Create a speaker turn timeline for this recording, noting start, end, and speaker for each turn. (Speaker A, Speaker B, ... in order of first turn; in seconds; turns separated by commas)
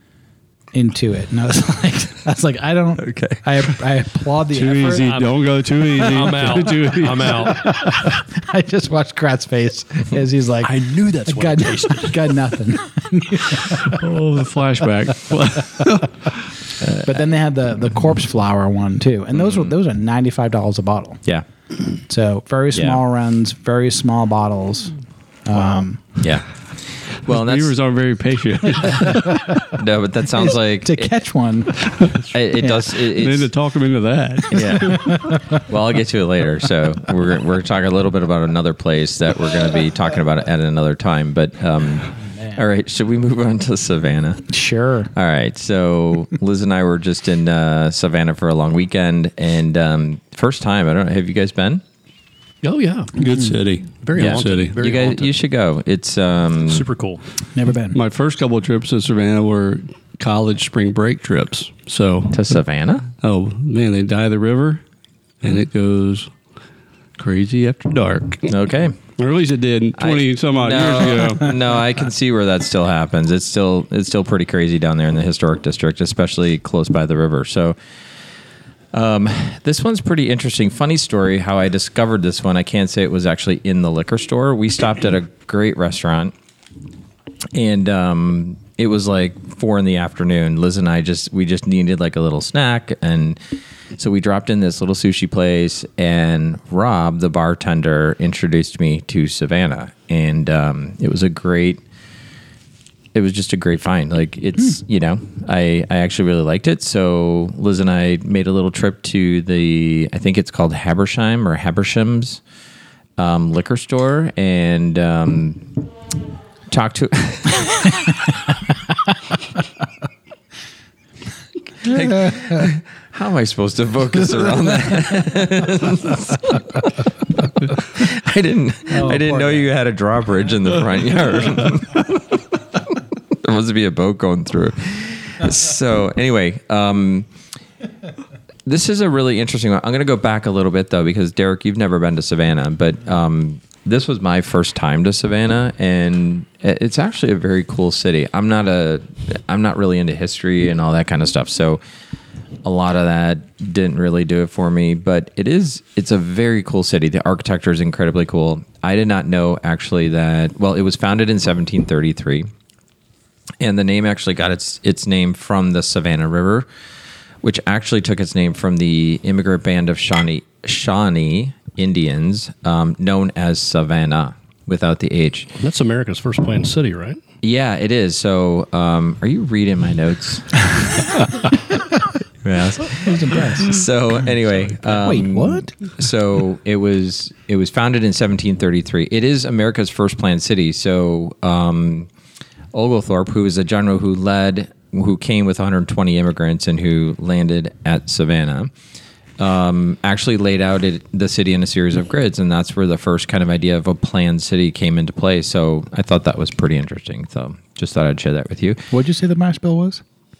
Speaker A: 0.7-5.2, Speaker B: 3.0-3.4, Speaker C: 4.5-7.5, Speaker D: 4.9-7.9, Speaker A: 7.2-10.7, Speaker D: 10.6-12.3, Speaker A: 11.2-14.0, Speaker C: 13.8-16.1, Speaker B: 16.8-17.1, Speaker A: 16.9-21.2, Speaker B: 19.3-19.7, Speaker A: 22.1-26.0, Speaker B: 22.7-23.0, Speaker B: 26.2-26.4, Speaker B: 27.0-27.7, Speaker C: 27.3-29.4, Speaker B: 28.9-31.1, Speaker A: 29.0-29.7, Speaker A: 30.8-32.9, Speaker B: 32.3-33.5, Speaker C: 33.1-35.2, Speaker B: 34.5-44.5, Speaker A: 34.8-35.6, Speaker A: 42.1-42.6, Speaker A: 44.5-45.1, Speaker B: 45.1-51.8, Speaker D: 52.6-53.2, Speaker C: 53.2-54.7, Speaker A: 53.2-53.5, Speaker D: 54.0-55.3, Speaker B: 54.1-56.9, Speaker D: 56.7-57.2, Speaker A: 57.5-58.0, Speaker C: 57.9-62.5, Speaker B: 62.3-63.0, Speaker C: 63.1-64.8, Speaker C: 65.4-66.3, Speaker C: 67.2-68.5, Speaker B: 68.5-69.0, Speaker C: 69.2-71.5, Speaker B: 70.0-77.8, Speaker B: 78.9-86.3, Speaker B: 87.5-93.4, Speaker B: 94.0-101.8, Speaker B: 103.1-112.4, Speaker B: 113.2-115.8, Speaker B: 116.7-118.2, Speaker B: 121.8-137.3, Speaker A: 128.9-129.7, Speaker B: 138.6-151.8, Speaker B: 152.6-162.5, Speaker B: 163.6-166.7, Speaker B: 167.4-175.5, Speaker D: 175.6-177.2, Speaker B: 177.4-181.0, Speaker B: 182.4-192.1, Speaker A: 182.9-183.7, Speaker A: 184.9-185.7, Speaker B: 192.7-198.7, Speaker B: 199.4-208.8, Speaker A: 208.9-210.0